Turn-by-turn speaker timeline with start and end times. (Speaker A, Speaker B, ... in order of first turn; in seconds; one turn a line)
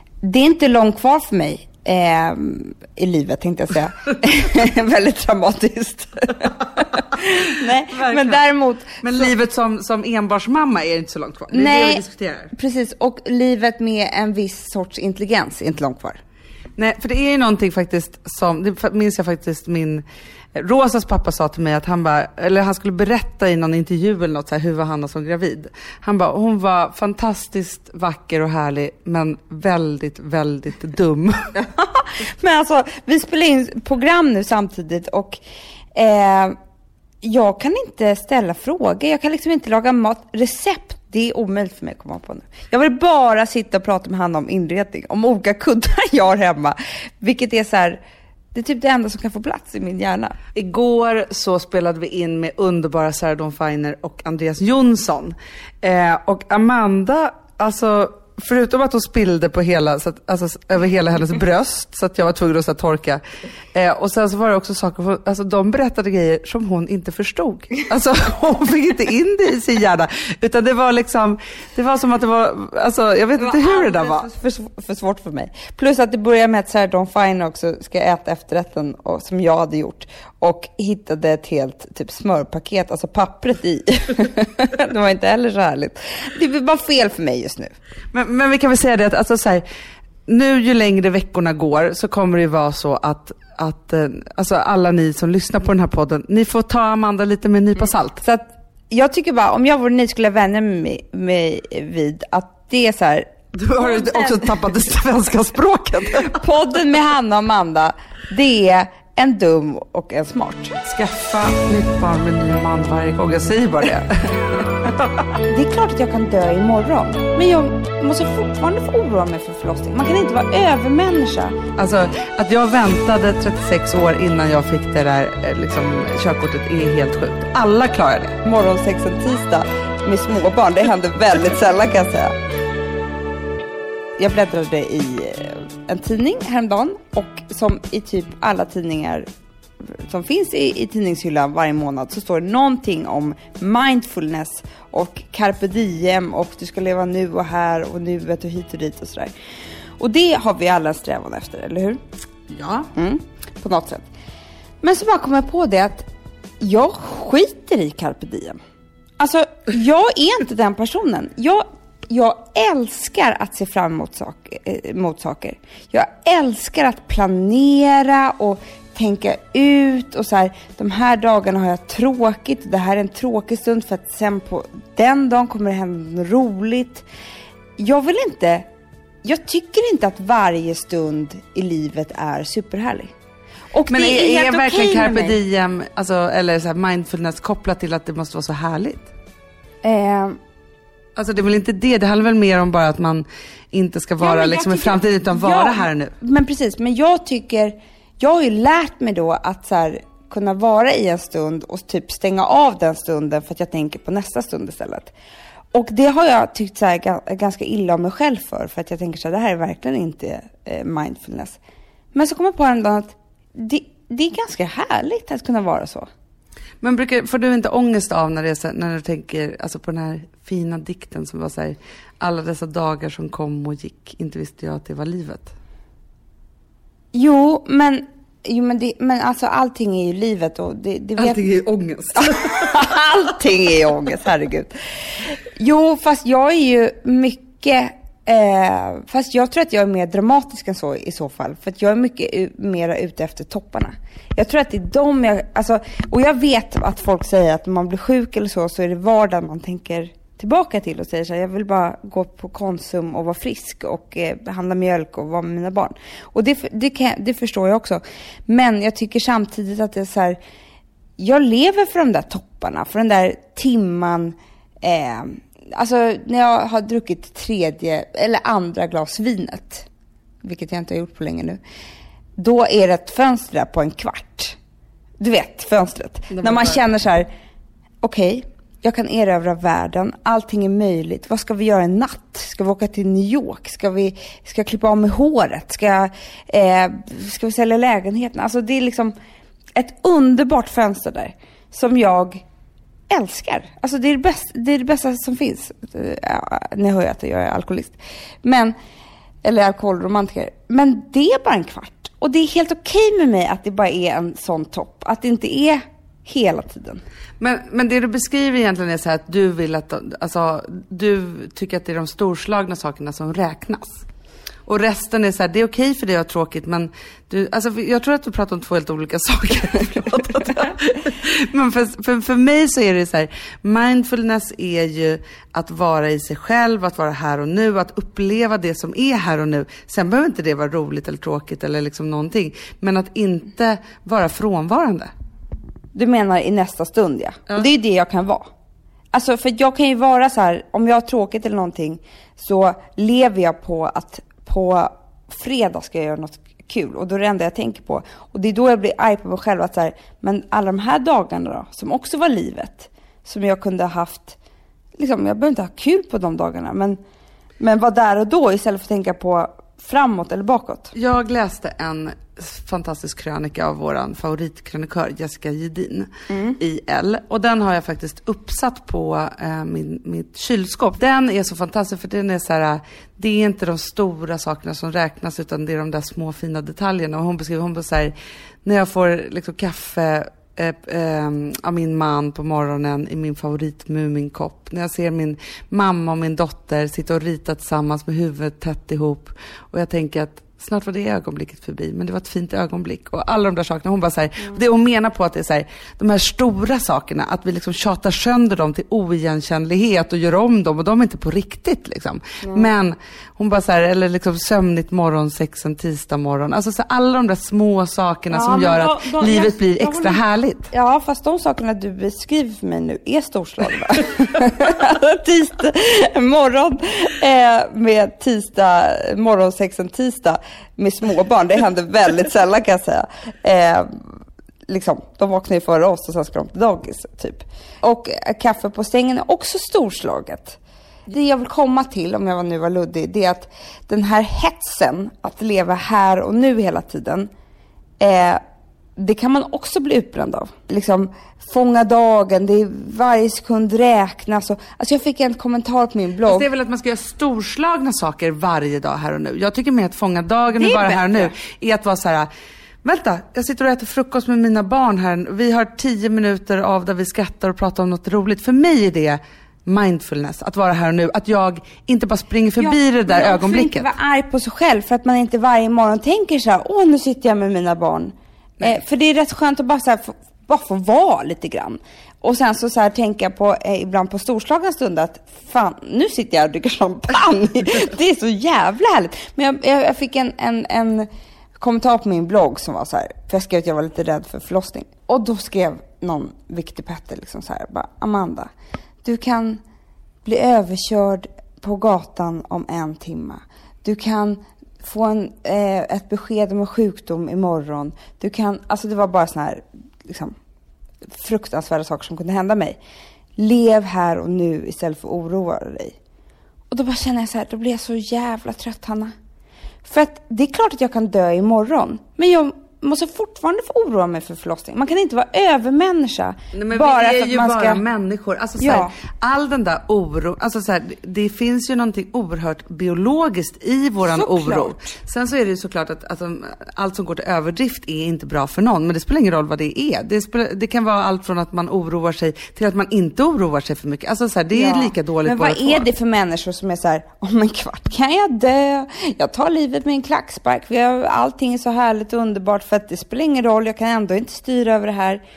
Speaker A: 0.2-9.3
Speaker B: 6.8-8.4
Speaker B: 9.0-12.5
Speaker A: 11.5-16.2
Speaker B: 16.8-20.0
Speaker B: 20.5-31.5
Speaker A: 31.5-35.4
Speaker A: 35.9-36.5
Speaker A: 37.2-48.0
Speaker A: 48.5-50.4
Speaker B: 50.5-63.2
Speaker B: 63.7-74.3
Speaker A: 73.4-87.8
Speaker B: 88.1-89.6
Speaker B: 90.3-98.2
Speaker A: 98.2-104.5
Speaker B: 103.5-106.4
Speaker A: 106.1-110.7
Speaker B: 110.8-114.4
Speaker A: 115.4-121.6
Speaker B: 121.8-128.4
Speaker A: 128.4-132.3
Speaker A: 134.2-139.2
Speaker A: 139.8-149.3
Speaker A: 150.0-152.0
Speaker B: 152.5-152.9
Speaker A: 152.9-154.1
Speaker A: 154.8-156.1
Speaker A: 156.6-158.6
Speaker A: 159.2-177.0
Speaker A: 177.8-178.7
Speaker A: 179.2-183.1
Speaker A: 183.7-185.4
Speaker B: 183.9-189.1
Speaker A: 189.8-190.4
Speaker B: 191.2-196.1
Speaker A: 194.2-205.1
Speaker A: 205.7-211.6
Speaker A: 212.1-216.1
Speaker B: 216.8-225.5
Speaker A: 227.1-231.6
Speaker B: 231.2-232.8
Speaker A: 232.2-260.4
Speaker A: 261.2-269.9
Speaker A: 270.4-271.6
Speaker A: 272.4-274.6
Speaker A: 275.2-277.3
Speaker B: 276.3-276.8
Speaker A: 278.0-289.1
Speaker A: 289.8-292.4
Speaker A: 293.1-298.7
Speaker A: 299.4-307.0
Speaker B: 307.4-314.0
Speaker B: 314.6-335.1
Speaker A: 335.9-338.4
Speaker A: 339.1-354.4
Speaker A: 355.0-357.0
Speaker A: 357.6-360.9
Speaker B: 360.9-410.7
Speaker A: 366.3-366.6
Speaker A: 402.4-402.7
Speaker A: 408.3-424.1
Speaker A: 424.7-437.3
Speaker A: 438.0-438.4
Speaker A: 439.0-446.4
Speaker B: 446.2-452.3
Speaker A: 450.5-451.3
Speaker B: 452.8-463.9
Speaker A: 462.6-481.1
Speaker A: 481.6-488.5
Speaker A: 489.0-489.6
Speaker A: 490.2-500.3
Speaker A: 501.1-502.8
Speaker A: 503.4-505.9
Speaker A: 506.7-509.1
Speaker A: 509.8-517.8
Speaker B: 516.5-535.9
Speaker A: 518.6-518.9
Speaker A: 524.0-524.9
Speaker A: 534.5-545.2